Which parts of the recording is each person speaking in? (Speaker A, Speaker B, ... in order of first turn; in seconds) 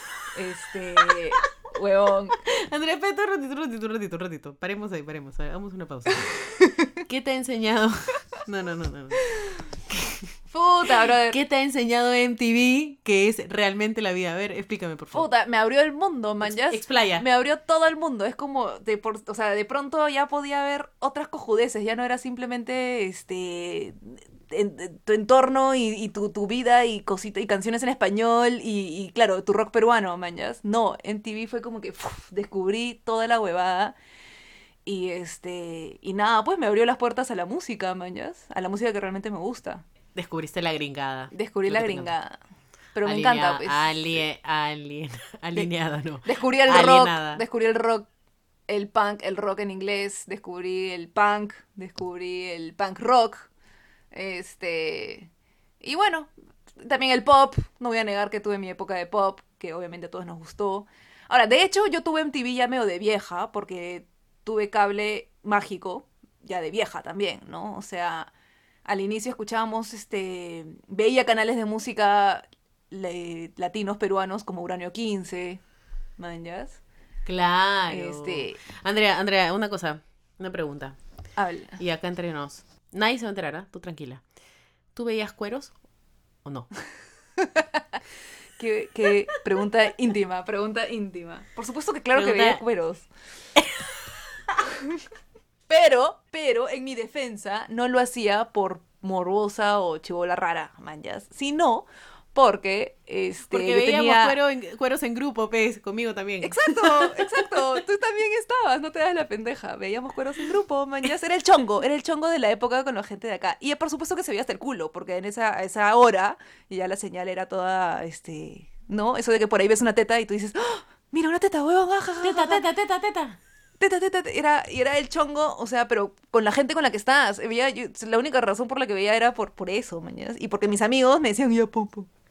Speaker A: 0.3-2.4, 6.5-7.0, 10.5-11.4, 15.1-34.0, 34.9-39.9, 41.3-42.4, 43.0-44.2, 46.2-48.1, 48.7-53.5, 54.1-55.3, 55.8-68.3, 68.9-75.6, 76.2-76.8, 77.9-78.6, 81.4-81.8, 88.6-93.1, 95.7-104.4, 106.4-122.6, 123.8-132.1
Speaker B: 2.3-6.3, 7.1-9.2, 9.9-10.2, 11.2-15.3, 16.4-17.2, 40.1-42.1, 43.0-47.4, 77.3-81.0, 81.8-84.2, 85.0-85.7, 86.5-86.7, 92.1-92.6, 93.6-93.9, 103.5-107.6, 122.2-123.4